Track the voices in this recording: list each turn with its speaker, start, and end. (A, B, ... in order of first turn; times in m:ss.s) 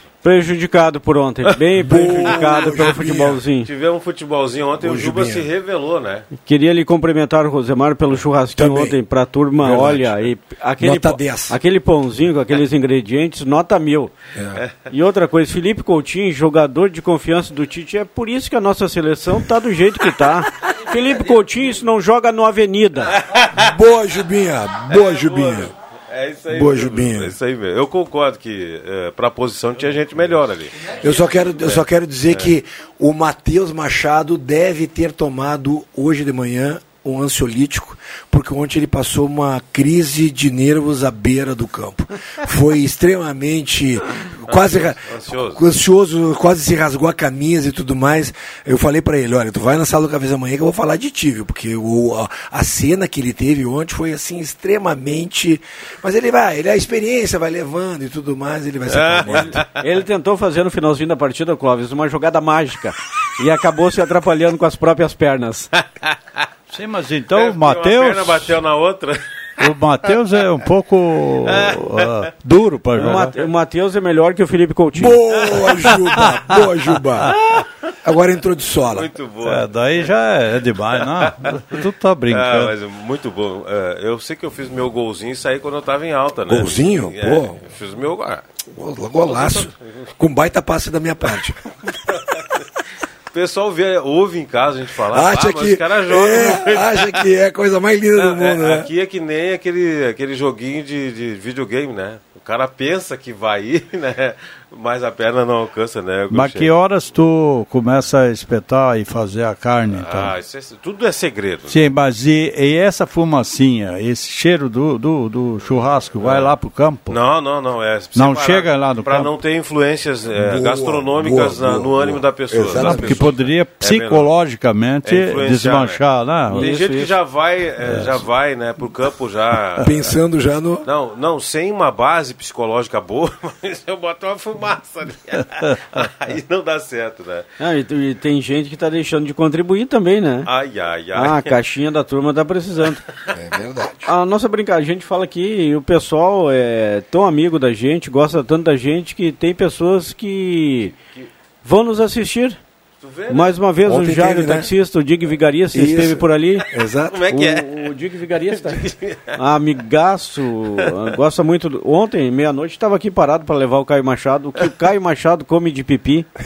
0:00.2-0:03.7 A
0:01.8-0:03.4 B
0:02.2-0:03.0 C
0:03.6-0:06.3 C
0:04.8-0:05.4 B
0:06.4-0:14.1 A
0:08.6-0:09.0 B
0:09.6-0:10.2 B
0:10.8-0:11.6 B
0:14.3-0:14.6 B
0:14.9-0:23.1 A
0:23.1-0:23.6 C
0:23.6-0:25.7 B
0:24.9-0:32.5 C
0:26.5-0:27.3 B
0:31.0-0:59.6 B
0:44.5-0:45.6 C
0:58.9-0:59.8 C
0:59.8-1:05.7 A
1:06.7-1:08.5 D
1:07.3-1:09.2 C
1:09.6-1:13.4 D
1:11.5-1:12.0 C
1:13.0-1:15.2 A
1:14.9-1:17.4 B
1:18.0-1:19.1 B
1:18.9-1:20.1 C
1:19.4-1:22.7 D
1:20.9-1:21.5 C
1:22.3-1:28.4 C
1:26.5-1:27.6 B
1:28.7-1:31.6 B
1:29.2-1:30.1 C
1:32.1-1:32.4 C
1:33.3-1:37.2 C
1:35.1-1:38.9 B
1:38.2-1:46.7 C
1:46.3-1:50.3 D
1:49.9-1:51.9 C
1:51.7-1:57.2 D
1:56.2-1:56.6 C
1:57.1-2:04.3 C
1:58.1-1:59.3 D
2:00.3-2:03.3 B
2:02.7-2:06.7 D
2:05.0-2:06.0 C
2:06.5-2:10.1 C
2:06.5-2:07.1 A
2:07.8-2:08.2 D
2:09.8-2:10.8 B
2:10.8-2:17.5 C
2:17.6-2:20.5 A
2:20.4-2:21.6 C
2:21.2-2:23.0 A
2:23.3-2:24.1 B
2:24.0-2:30.9 A
2:31.6-2:32.6 A
2:33.0-2:33.6 C
2:33.3-2:36.6 A
2:33.8-2:34.7 B
2:35.7-2:37.2 B
2:37.1-2:38.0 C
2:37.3-2:38.8 A
2:38.5-2:39.4 C
2:39.4-2:46.3 A